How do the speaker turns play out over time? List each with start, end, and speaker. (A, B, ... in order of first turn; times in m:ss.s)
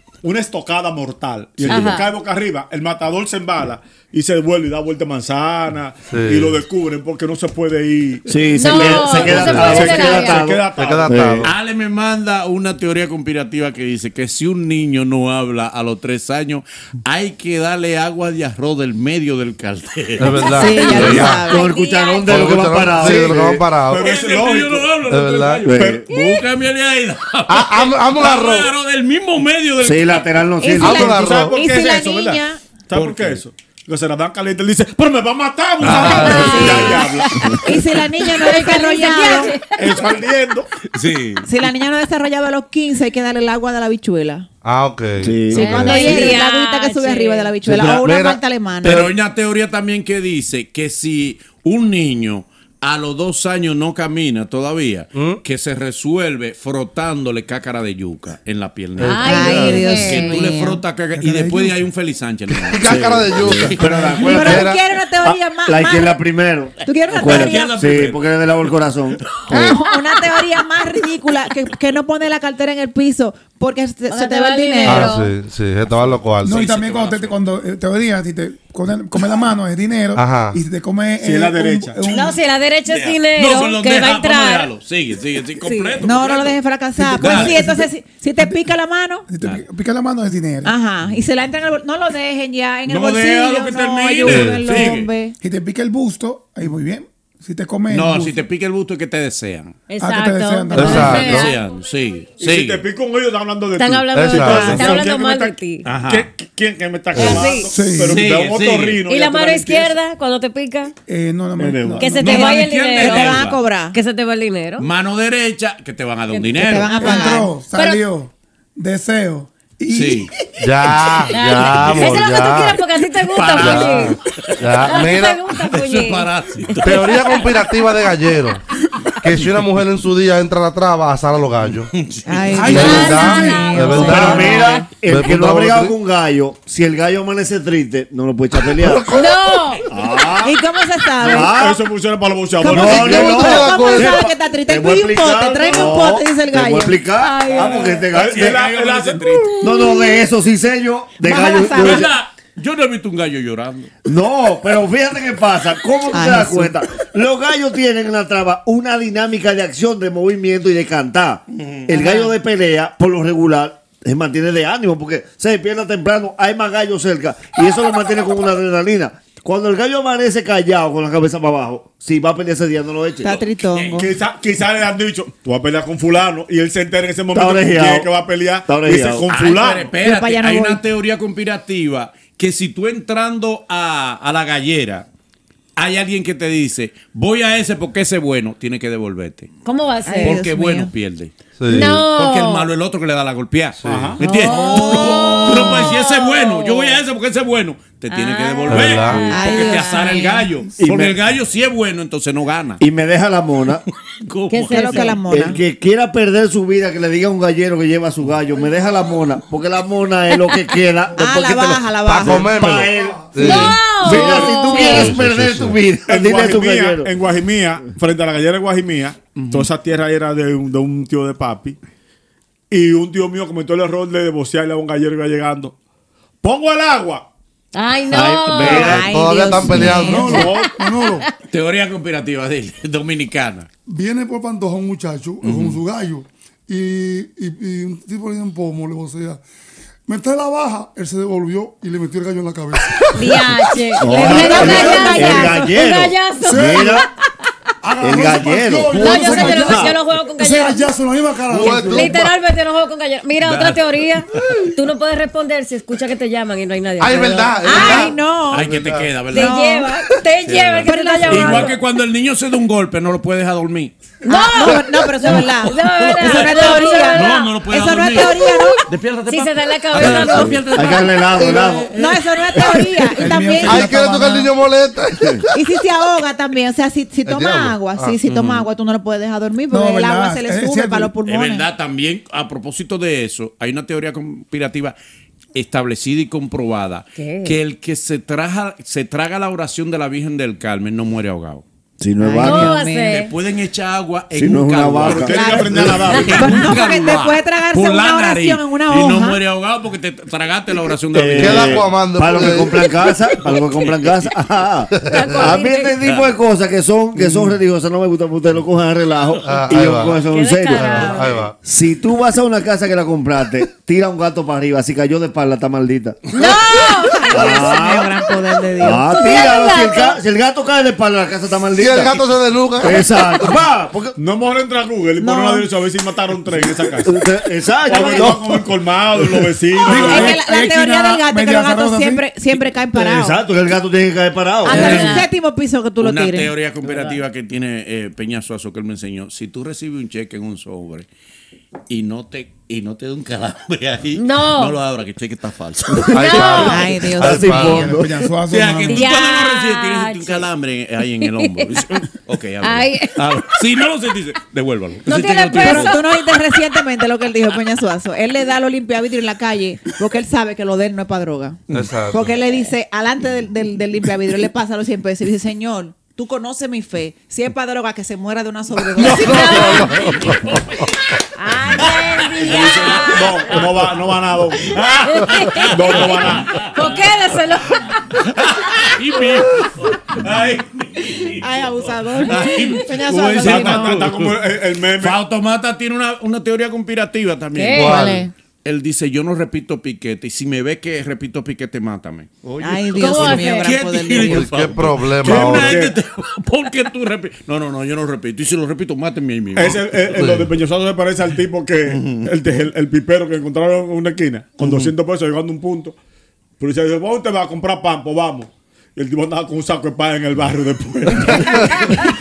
0:00.2-0:11.2 A
0:01.6-0:02.1 B
0:06.1-0:06.6 C
0:08.3-0:11.5 D
0:08.5-0:10.4 B
0:10.8-0:11.5 C
0:11.4-0:21.3 E
0:20.2-0:21.4 C
0:20.5-0:22.5 B
0:20.6-0:21.7 F
0:21.0-0:23.7 D
0:22.2-0:24.1 C
0:23.9-0:24.9 A
0:24.0-0:30.4 E
0:25.1-0:25.7 C
0:25.6-0:26.0 D
0:25.7-0:26.0 A
0:26.1-0:26.4 B
0:27.5-0:28.7 C
0:29.8-0:31.2 D
0:30.6-0:32.6 F
0:30.8-0:31.5 C
0:30.9-0:37.4 A
0:32.9-0:33.4 E
0:35.8-0:36.3 E
0:35.8-0:36.8 C
0:35.9-0:40.0 B
0:36.2-0:37.0 F
0:37.6-0:39.5 F
0:39.8-0:40.7 A
0:40.9-0:41.5 E
0:41.4-0:44.5 F
0:44.6-0:46.2 C
0:45.2-0:46.3 D
0:45.5-0:47.6 B
0:45.5-0:49.0 F
0:47.6-0:49.1 C
0:48.8-1:04.2 E
0:55.1-0:55.4 C
0:59.0-0:59.7 C
0:59.0-1:00.5 B
0:59.2-1:00.8 F
1:01.2-1:01.8 G
1:02.6-1:04.8 C
1:02.8-1:04.7 D
1:03.8-1:04.2 G
1:04.2-1:06.2 F
1:05.2-1:09.8 D
1:06.8-1:07.8 F
1:07.1-1:09.4 E
1:09.5-1:15.2 F
1:14.1-1:15.3 B
1:14.8-1:16.6 C
1:15.9-1:17.4 E
1:16.4-1:22.4 G
1:20.1-1:20.6 C
1:21.2-1:22.3 A
1:22.1-1:24.7 B
1:22.9-1:26.6 E
1:25.6-1:29.3 F
1:27.0-1:28.6 G
1:27.2-1:27.6 E
1:29.3-1:30.7 G
1:30.6-1:35.4 F
1:32.9-1:35.1 E
1:34.2-1:34.7 C
1:35.4-1:38.4 G
1:37.9-1:39.8 E
1:39.9-1:41.6 B
1:40.0-1:41.4 G
1:40.8-1:41.5 C
1:41.0-1:42.8 E
1:42.4-1:50.0 A
1:43.8-1:45.9 B
1:44.1-1:44.9 C
1:45.8-1:46.3 E
1:47.1-1:47.4 C
1:47.1-1:47.8 B
1:47.7-1:48.2 G
1:47.8-1:49.0 E
1:49.0-1:50.9 B
1:51.1-1:52.4 G
1:51.6-1:52.0 A
1:52.0-1:54.9 B
1:52.1-1:53.6 E
1:52.1-1:54.0 F
1:54.8-1:57.0 E
1:56.3-1:58.0 B
1:56.5-1:57.5 F
1:57.0-2:00.5 G
1:59.9-2:00.3 E
2:00.6-2:02.8 C
2:00.8-2:02.2 E
2:01.3-2:04.2 B
2:03.3-2:07.2 E
2:03.5-2:05.5 C
2:04.9-2:06.3 B
2:06.8-2:08.6 C
2:06.9-2:07.4 B
2:09.2-2:11.9 C
2:11.9-2:12.9 E
2:12.2-2:14.8 F
2:12.6-2:13.5 G
2:12.6-2:14.9 B
2:12.7-2:16.0 C
2:14.0-2:19.1 D
2:18.5-2:19.7 C
2:19.1-2:19.8 B
2:19.9-2:20.6 D
2:20.4-2:21.6 F
2:21.2-2:21.8 D
2:21.3-2:23.4 A
2:22.6-2:27.0 F
2:22.6-2:28.6 D
2:22.7-2:24.3 C
2:27.2-2:28.0 B
2:27.5-2:29.6 E
2:28.1-2:29.4 A
2:29.6-2:30.1 B
2:29.6-2:32.1 D
2:31.2-2:32.1 F
2:31.7-2:33.9 E
2:34.0-2:53.4 D
2:36.1-2:36.7 F
2:41.5-2:41.8 E
2:41.9-2:42.3 F
2:53.2-2:54.1 F
2:53.7-2:54.0 E
2:54.0-2:59.9 A
2:57.3-2:58.1 D
2:58.6-2:59.3 D
2:59.3-3:05.1 E
3:00.0-3:00.8 F
3:05.8-3:09.5 E
3:09.6-3:10.4 B
3:10.0-3:10.9 F
3:10.2-3:22.8 E
3:11.6-3:12.0 C
3:11.6-3:12.7 B
3:13.8-3:14.2 C
3:13.8-3:14.2 A
3:14.2-3:17.0 B
3:14.5-3:15.9 F
3:18.1-3:20.4 B
3:18.7-3:19.3 C
3:19.3-3:20.5 F
3:20.8-3:21.2 D
3:22.8-3:23.8 D
3:24.0-3:25.2 E
3:24.5-3:25.2 B
3:24.7-3:25.6 F
3:25.3-3:37.1 D
3:31.2-3:32.8 F
3:32.0-3:33.9 C
3:33.4-3:35.2 B
3:33.4-3:33.8 F
3:34.0-3:34.8 A
3:34.8-3:35.8 C
3:36.1-3:41.8 A
3:39.4-3:39.7 E
3:42.7-3:45.8 A
3:46.4-3:47.2 A
3:47.7-3:49.1 B
3:48.1-3:49.1 D
3:48.6-3:50.5 F
3:49.1-3:50.5 C
3:49.6-3:50.0 D
3:49.7-3:51.3 B
3:50.0-3:51.2 H
3:50.3-3:50.8 A
3:51.5-3:53.7 E
3:53.9-3:59.4 H
3:55.4-3:55.8 E
4:00.1-4:03.4 H
4:03.1-4:07.1 B
4:04.0-4:07.1 D
4:04.1-4:05.7 F
4:04.1-4:05.2 H
4:06.4-4:07.0 H
4:07.8-4:12.2 H
4:08.0-4:10.0 D
4:08.9-4:10.9 B
4:11.5-4:12.3 C
4:11.9-4:18.1 B
4:13.4-4:14.6 E
4:17.0-4:19.1 C
4:17.6-4:18.7 F
4:18.5-4:19.7 E
4:19.3-4:21.8 B
4:19.3-4:19.9 F
4:20.4-4:23.9 E
4:20.8-4:21.8 F
4:24.2-4:27.6 B
4:24.2-4:28.8 F
4:25.2-4:32.8 E
4:29.3-4:30.9 B
4:30.0-4:31.9 D
4:31.9-4:34.0 F
4:33.2-4:34.5 G
4:33.6-4:35.5 C
4:35.5-4:41.7 F
4:37.2-4:38.2 C
4:38.2-4:38.7 E
4:39.7-4:41.1 G
4:41.2-4:44.9 E
4:45.5-4:51.6 E
4:47.2-4:47.6 B
4:52.0-4:52.8 D
4:52.2-4:53.2 F
4:52.4-4:53.3 B
4:53.1-5:01.9 E
4:54.3-4:56.3 D
4:55.0-4:56.7 A
4:55.3-4:59.4 F
5:01.1-5:16.3 D
5:01.4-5:02.7 C
5:03.3-5:04.3 E
5:05.0-5:06.0 B
5:05.1-5:05.5 C
5:06.0-5:06.3 E
5:09.4-5:11.5 C
5:10.2-5:11.4 B
5:16.3-5:17.7 B
5:16.4-5:19.4 F
5:17.3-5:18.1 D
5:18.8-5:22.2 D
5:19.0-5:20.2 B
5:21.8-5:23.6 C
5:22.8-5:24.2 D
5:24.2-5:27.2 A
5:25.2-5:25.7 F
5:27.0-5:29.5 D
5:27.8-5:30.4 A
5:29.8-5:32.3 G
5:29.9-5:33.4 F
5:32.9-5:35.2 D
5:34.6-5:36.5 F
5:34.7-5:35.3 B
5:36.0-5:41.1 E
5:41.9-5:46.7 E
5:44.2-5:44.8 B
5:46.1-5:48.0 C
5:46.1-5:46.9 B
5:46.6-5:47.9 F
5:47.1-5:48.3 D
5:47.4-5:49.1 G
5:48.5-5:56.0 E
5:48.9-5:50.4 B
5:51.2-5:51.8 B
5:52.6-5:53.3 B
5:55.0-5:56.1 B
5:55.6-6:01.6 F
6:01.7-6:02.2 C
6:02.1-6:09.9 F
6:09.0-6:10.6 C
6:09.1-6:10.0 B
6:09.9-6:10.9 E
6:11.4-6:13.7 B
6:11.8-6:13.9 E
6:12.5-6:14.7 A
6:14.6-6:17.1 E
6:15.0-6:18.0 B
6:15.7-6:16.6 A
6:17.8-6:24.4 E
6:21.4-6:23.9 F
6:23.4-6:25.2 A
6:23.4-6:23.7 B
6:25.0-6:28.0 E
6:27.6-6:28.2 B
6:27.7-6:28.2 C
6:27.9-6:28.3 F
6:28.6-6:40.2 E
6:32.6-6:34.5 F
6:33.0-6:33.8 B
6:34.2-6:35.8 C
6:35.2-6:36.0 A
6:39.6-6:46.0 A
6:40.2-6:40.5 C
6:41.9-6:42.3 E
6:44.6-6:44.9 E
6:46.6-6:51.9 A